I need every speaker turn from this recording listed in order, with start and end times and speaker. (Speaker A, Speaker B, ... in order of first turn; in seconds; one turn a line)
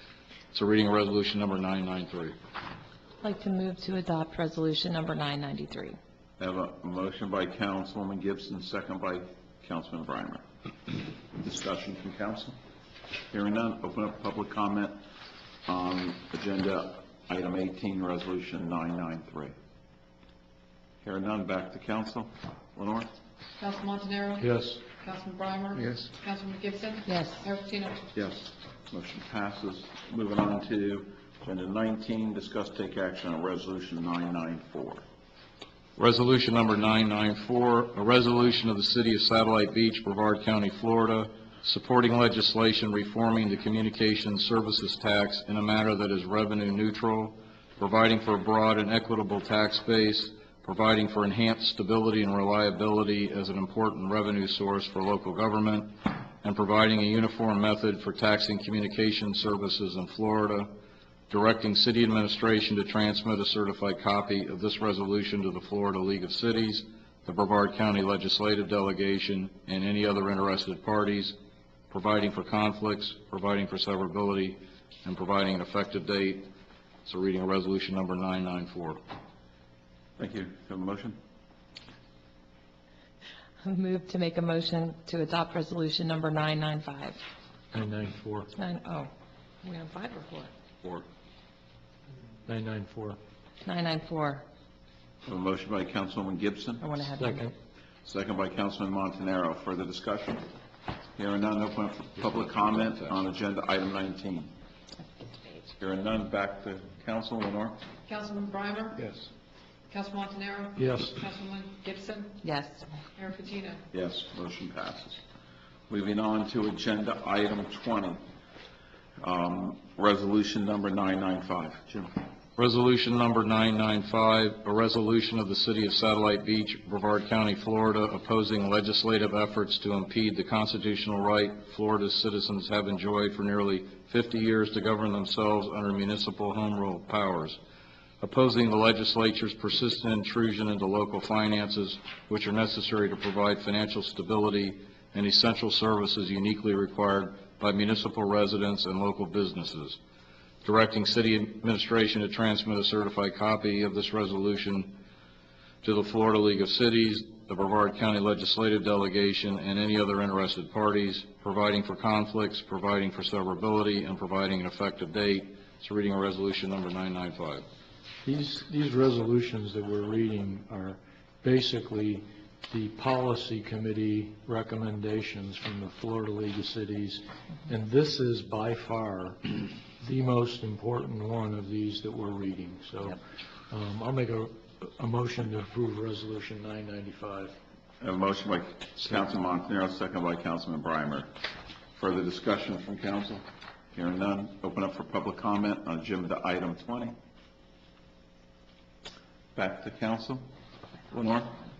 Speaker A: 0.5-2.4
Speaker B: 3.2-6.0
Speaker C: 6.4-10.4
Speaker C: 11.3-12.6
Speaker C: 13.3-15.0
Speaker C: 15.7-19.5
Speaker C: 21.0-23.1
Speaker D: 23.6-28.0
Speaker E: 24.4-24.8
Speaker B: 27.1-27.4
Speaker C: 28.1-35.0
Speaker A: 36.0-60.7
Speaker A: 61.3-71.3
Speaker A: 71.9-76.5
Speaker A: 77.0-79.0
Speaker C: 80.2-81.2
Speaker B: 83.6-87.2
Speaker E: 87.7-88.5
Speaker B: 88.6-89.1
Speaker B: 89.6-90.5
Speaker E: 92.5-93.2
Speaker B: 93.6-94.4
Speaker C: 95.2-96.8
Speaker B: 96.8-97.4
Speaker E: 97.1-97.5
Speaker C: 98.0-100.5
Speaker C: 101.2-104.5
Speaker C: 105.8-107.8
Speaker D: 108.1-109.1
Speaker D: 109.9-112.4
Speaker E: 110.8-111.2
Speaker B: 112.4-112.8
Speaker D: 113.2-113.8
Speaker C: 113.9-115.2
Speaker C: 115.9-118.2
Speaker C: 119.2-122.1
Speaker A: 122.6-137.6
Speaker A: 138.2-150.0
Speaker A: 150.6-154.9
Speaker A: 155.8-167.6
Speaker E: 168.2-187.6
Speaker C: 188.0-191.3
Speaker C: 191.9-193.4
Speaker C: 193.9-197.1
Speaker C: 199.5-200.4
Speaker C: 201.1-201.6